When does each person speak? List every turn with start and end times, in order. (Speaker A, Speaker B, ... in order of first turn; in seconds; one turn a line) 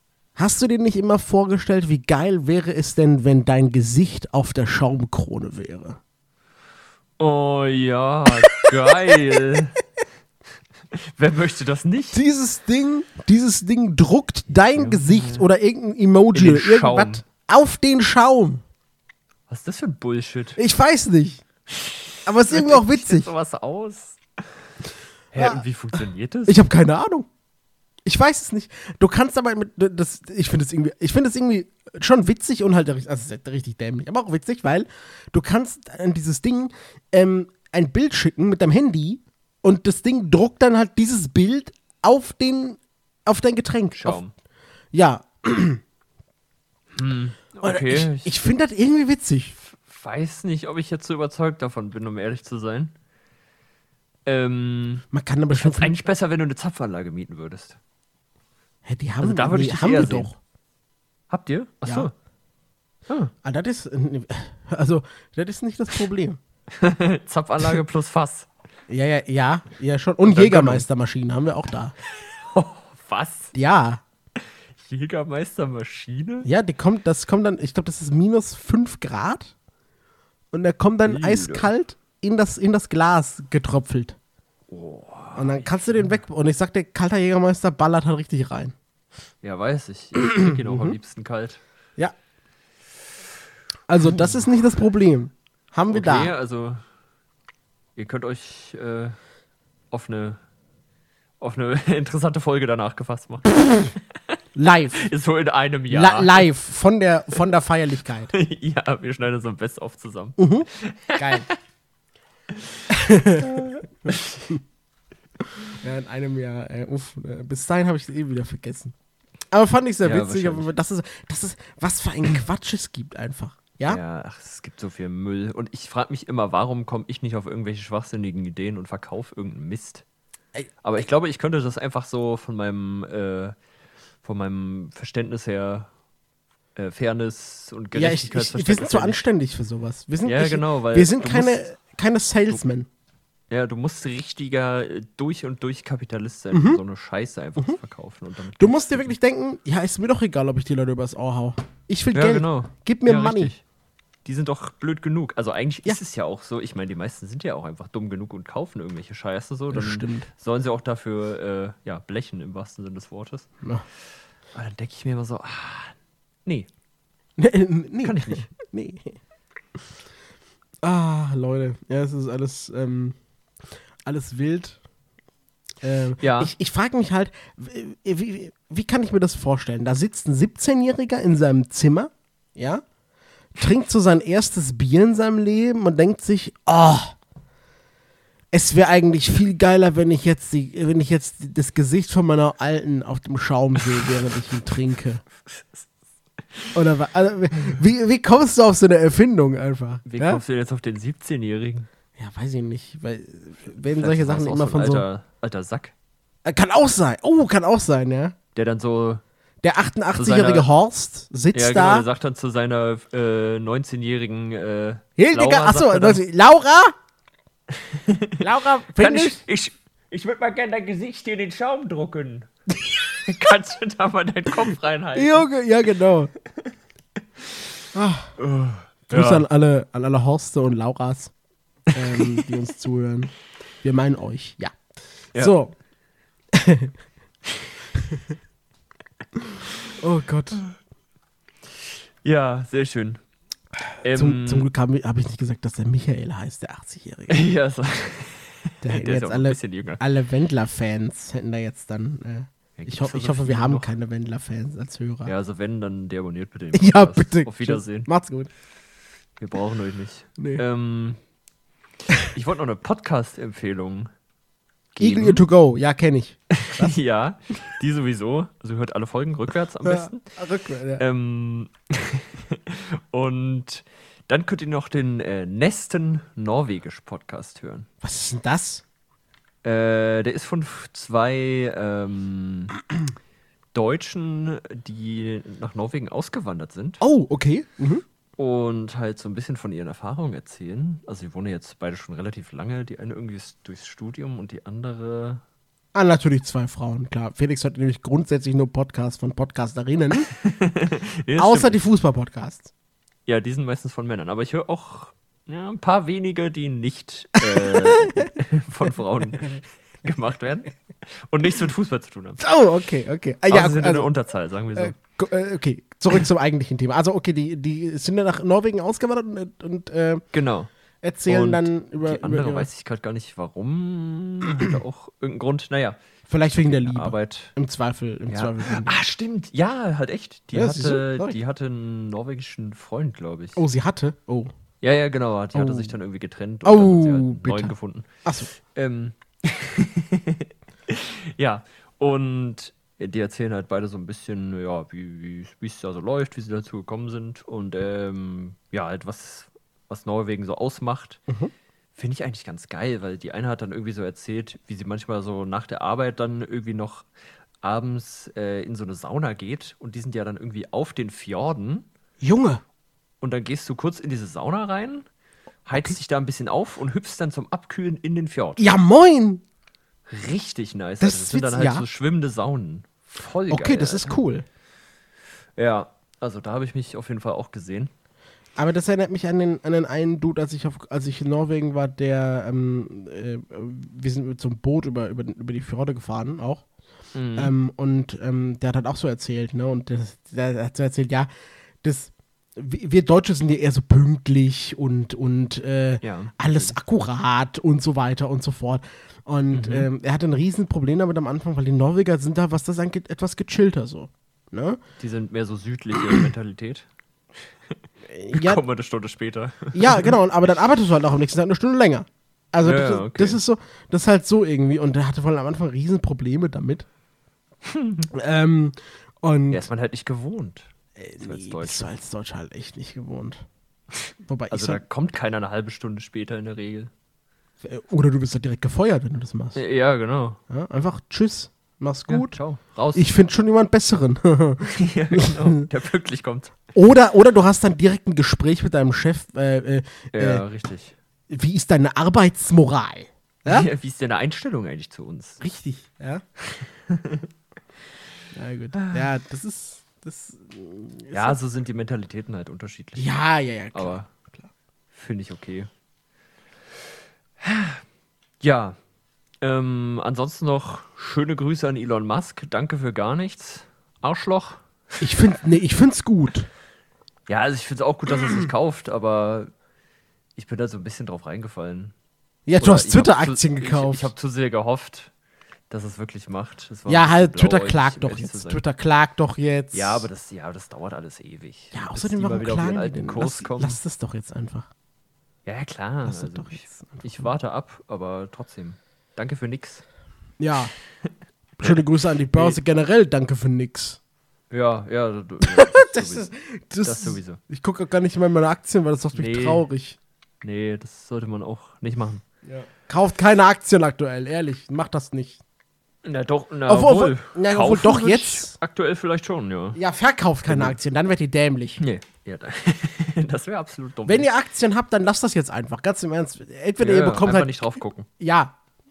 Speaker A: 0.4-6.0
Speaker B: 7.2-9.8
Speaker A: 8.4-9.4
Speaker B: 10.9-12.2
Speaker A: 12.1-18.6
Speaker B: 14.7-15.4
Speaker B: 16.3-17.2
Speaker B: 19.5-20.6
Speaker A: 20.6-21.4
Speaker B: 21.8-24.2
Speaker A: 22.2-23.3
Speaker B: 25.3-26.6
Speaker A: 25.4-25.6
Speaker A: 26.5-27.3
Speaker A: 28.1-44.2
Speaker B: 44.0-44.3
Speaker A: 44.9-45.8
Speaker B: 47.0-48.3
Speaker A: 47.6-49.6
Speaker B: 49.6-52.9
Speaker B: 54.3-55.0
Speaker A: 55.1-56.0
Speaker B: 55.6-57.8
Speaker A: 58.9-60.4
Speaker B: 59.2-60.3
Speaker B: 61.3-62.1
Speaker A: 63.4-66.4
Speaker B: 66.7-68.5
Speaker A: 68.9-71.9
Speaker B: 70.2-70.8
Speaker B: 72.1-73.5
Speaker A: 73.5-74.0
Speaker B: 74.8-76.5
Speaker A: 76.5-79.5
Speaker A: 80.5-84.2
Speaker B: 81.1-81.7
Speaker B: 84.7-86.1
Speaker A: 85.4-88.8
Speaker B: 89.4-91.6
Speaker A: 90.2-91.0
Speaker A: 93.9-96.3
Speaker B: 95.9-96.8
Speaker B: 98.0-99.2
Speaker B: 99.9-100.4
Speaker B: 101.4-103.9
Speaker A: 104.6-105.1
Speaker B: 105.0-106.5
Speaker A: 105.9-108.3
Speaker B: 108.3-111.6
Speaker A: 110.4-111.5
Speaker A: 112.9-114.6
Speaker B: 113.4-114.4
Speaker A: 115.6-119.0
Speaker A: 119.5-124.0
Speaker B: 120.0-120.7
Speaker B: 123.9-130.1
Speaker B: 130.8-133.6
Speaker B: 134.2-135.9
Speaker B: 136.8-139.2
Speaker A: 137.9-142.9
Speaker B: 140.2-141.6
Speaker B: 143.5-149.2
Speaker A: 146.5-146.8
Speaker A: 148.6-153.5
Speaker B: 152.1-153.6
Speaker B: 154.2-163.5
Speaker A: 159.7-160.3
Speaker B: 164.5-165.9
Speaker A: 167.4-169.2
Speaker B: 168.0-168.4
Speaker A: 170.8-173.2
Speaker A: 174.1-174.8
Speaker A: 175.8-182.8
Speaker B: 176.2-176.5
Speaker A: 183.6-187.1
Speaker A: 188.5-195.2
Speaker B: 195.6-195.8
Speaker A: 196.7-200.4
Speaker B: 200.1-201.9
Speaker A: 202.2-205.1
Speaker B: 203.9-205.9
Speaker A: 206.4-208.3
Speaker B: 208.6-209.2
Speaker A: 209.6-212.1
Speaker B: 210.2-210.7
Speaker B: 211.5-216.2
Speaker A: 215.2-216.9
Speaker B: 217.7-218.4
Speaker A: 218.4-219.4
Speaker B: 219.0-222.5
Speaker B: 223.0-225.5
Speaker A: 225.2-226.3
Speaker A: 227.9-228.3
Speaker B: 228.4-229.4
Speaker A: 229.1-231.3
Speaker A: 231.9-233.3
Speaker B: 232.1-232.4
Speaker A: 233.8-234.8
Speaker A: 235.4-235.7
Speaker A: 236.5-236.9
Speaker A: 237.9-238.2
Speaker A: 240.0-240.6
Speaker B: 242.2-243.2
Speaker B: 244.0-244.7
Speaker A: 244.1-247.5
Speaker B: 247.3-250.0
Speaker A: 248.8-255.3
Speaker B: 252.8-253.9
Speaker B: 255.2-258.1
Speaker A: 256.7-258.5
Speaker B: 259.4-261.2
Speaker A: 260.4-260.6
Speaker B: 262.2-264.1
Speaker B: 264.9-265.4
Speaker A: 265.0-267.0
Speaker B: 266.5-270.3
Speaker A: 269.8-271.0
Speaker B: 271.0-277.9
Speaker A: 278.0-278.8
Speaker B: 279.6-282.8
Speaker B: 283.7-287.0
Speaker A: 287.0-288.0
Speaker B: 288.4-295.4
Speaker A: 295.9-300.3
Speaker B: 300.3-301.8
Speaker A: 301.4-302.7
Speaker B: 303.3-312.4
Speaker A: 307.5-308.3
Speaker A: 312.4-314.1
Speaker B: 313.5-315.0
Speaker A: 314.8-320.3
Speaker B: 320.3-320.7
Speaker A: 321.0-322.7
Speaker B: 321.3-326.0
Speaker A: 326.3-329.0
Speaker B: 326.7-327.5
Speaker B: 328.3-333.6
Speaker A: 330.5-331.4
Speaker A: 333.6-334.5
Speaker B: 334.8-351.2
Speaker A: 335.5-335.9
Speaker A: 336.6-337.7
Speaker A: 338.2-338.5
Speaker B: 351.9-357.1
Speaker B: 357.6-361.9
Speaker A: 362.2-362.6
Speaker B: 363.2-365.1
Speaker B: 365.6-368.8
Speaker A: 368.6-369.4
Speaker B: 370.1-374.2
Speaker A: 371.0-371.9
Speaker A: 373.5-374.4
Speaker B: 375.6-377.9
Speaker A: 378.6-386.6
Speaker B: 387.1-387.5
Speaker A: 387.4-391.3
Speaker A: 391.8-404.8
Speaker B: 396.0-396.8
Speaker B: 399.5-399.9
Speaker B: 405.0-406.9
Speaker A: 406.0-406.3
Speaker A: 408.1-408.6
Speaker B: 408.3-410.2
Speaker A: 409.7-416.9
Speaker B: 412.6-413.4
Speaker B: 417.6-418.1
Speaker A: 418.1-419.7
Speaker B: 419.5-420.7
Speaker A: 421.0-423.4
Speaker B: 421.2-421.9
Speaker A: 424.2-424.8
Speaker B: 424.5-426.9
Speaker A: 427.6-429.6
Speaker B: 429.6-430.4
Speaker A: 430.5-432.4
Speaker B: 432.1-433.1
Speaker A: 432.9-435.7
Speaker B: 434.6-436.6
Speaker A: 436.8-440.4
Speaker B: 440.1-441.0
Speaker A: 441.3-443.7
Speaker B: 443.5-445.4
Speaker A: 445.4-446.2
Speaker B: 446.5-447.3
Speaker A: 448.3-451.4
Speaker B: 448.8-449.0
Speaker B: 451.1-453.1
Speaker A: 453.0-454.5
Speaker B: 453.7-454.1
Speaker B: 454.9-455.7
Speaker B: 457.4-457.8
Speaker B: 458.4-458.8
Speaker B: 459.4-464.6
Speaker A: 465.0-466.5
Speaker B: 467.3-469.5
Speaker B: 470.4-471.9
Speaker A: 472.5-474.1
Speaker B: 472.6-475.1
Speaker B: 475.7-478.6
Speaker A: 476.9-480.1
Speaker B: 479.7-483.8
Speaker A: 481.7-484.7
Speaker B: 485.5-489.8
Speaker A: 486.1-487.2
Speaker A: 490.4-490.7
Speaker A: 491.6-494.0
Speaker B: 492.3-492.6
Speaker B: 494.5-496.3
Speaker A: 495.4-500.0
Speaker B: 496.8-497.4
Speaker B: 499.1-499.6
Speaker B: 500.4-502.2
Speaker A: 502.5-505.4
Speaker B: 506.0-509.8
Speaker A: 506.7-508.6
Speaker A: 509.8-511.8
Speaker B: 510.5-510.8
Speaker B: 511.8-514.3
Speaker A: 514.1-517.6
Speaker B: 516.8-518.1
Speaker A: 518.2-518.5